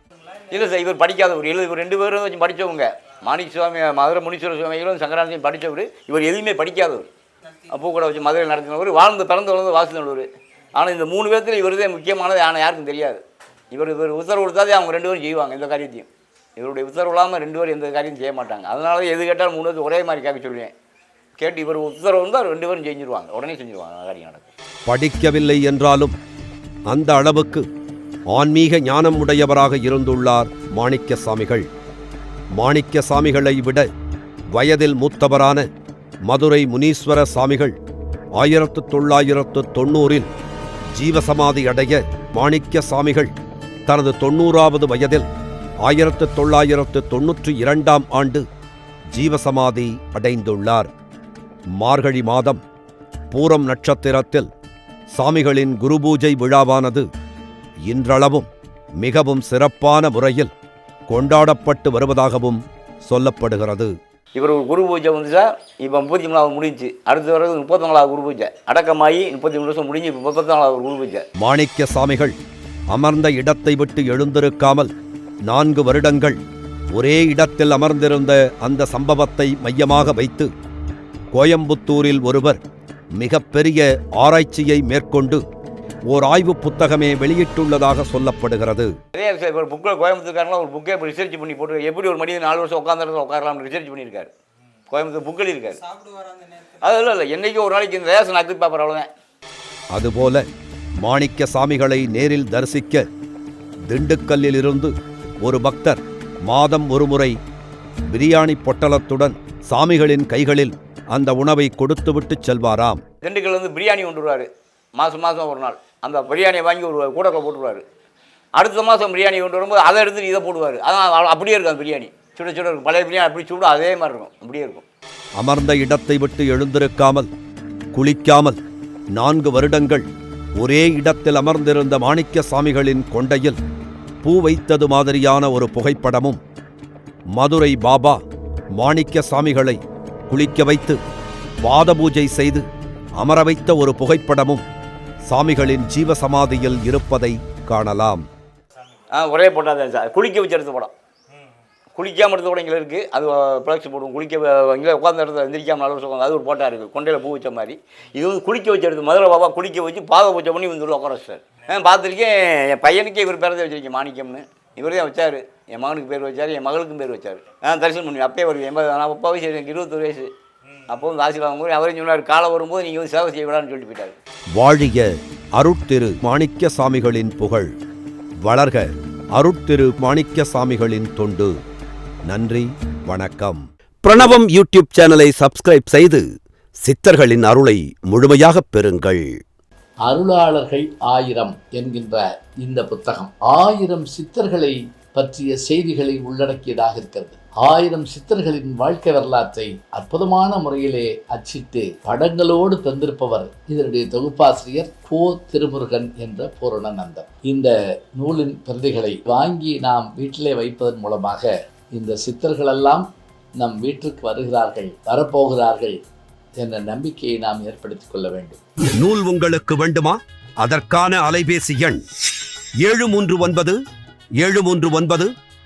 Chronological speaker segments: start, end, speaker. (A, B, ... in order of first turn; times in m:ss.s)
0:00.5-0:07.1 A
0:07.7-0:13.2 A
0:13.7-0:20.7 A
0:21.4-0:24.5 A
0:24.8-0:26.2 B
0:26.9-0:27.6 B
0:28.3-0:31.7 B
0:32.6-0:33.9 B
0:34.5-0:35.6 B
0:36.3-0:37.8 B
0:38.4-0:40.3 B
0:40.9-0:43.3 B
0:43.9-0:45.3 B
0:45.8-0:48.4 B
0:49.1-0:50.9 B
0:51.8-0:52.6 B
0:53.3-0:54.5 B
0:55.1-0:57.0 B
0:57.9-0:58.5 B
0:59.0-1:00.5 B
1:01.1-1:03.9 B
1:04.3-1:11.2 A
1:11.4-1:12.4 B
1:12.9-1:14.9 B
1:15.5-1:16.4 B
1:16.9-1:20.5 B
1:21.3-1:22.6 B
1:23.2-1:25.4 B
1:26.1-1:28.9 B
1:29.1-1:34.3 A
1:34.9-1:39.1 A
1:39.9-1:40.4 B
1:41.0-1:43.0 B
1:43.9-1:47.3 B
1:48.1-1:53.0 B
1:53.2-1:57.8 A
1:58.6-2:04.8 A
2:05.4-2:07.3 B
2:07.9-2:08.6 B
2:09.2-2:10.0 B
2:10.6-2:13.6 B
2:14.2-2:16.4 B
2:17.3-2:18.2 B
2:18.8-2:19.8 B
2:20.3-2:21.0 B
2:21.6-2:22.6 B
2:23.2-2:24.6 B
2:25.3-2:28.2 B
2:29.1-2:30.9 A
2:32.0-2:50.3 A
2:50.9-2:54.1 A
2:54.5-2:57.7 B
2:58.4-3:01.5 B
3:02.3-3:06.2 B
3:06.8-3:09.3 B
3:10.1-3:33.0 C
3:33.6-3:36.0 C
3:36.6-3:38.6 C
3:39.0-3:42.0 B
3:42.8-3:43.8 B
3:44.4-3:45.3 B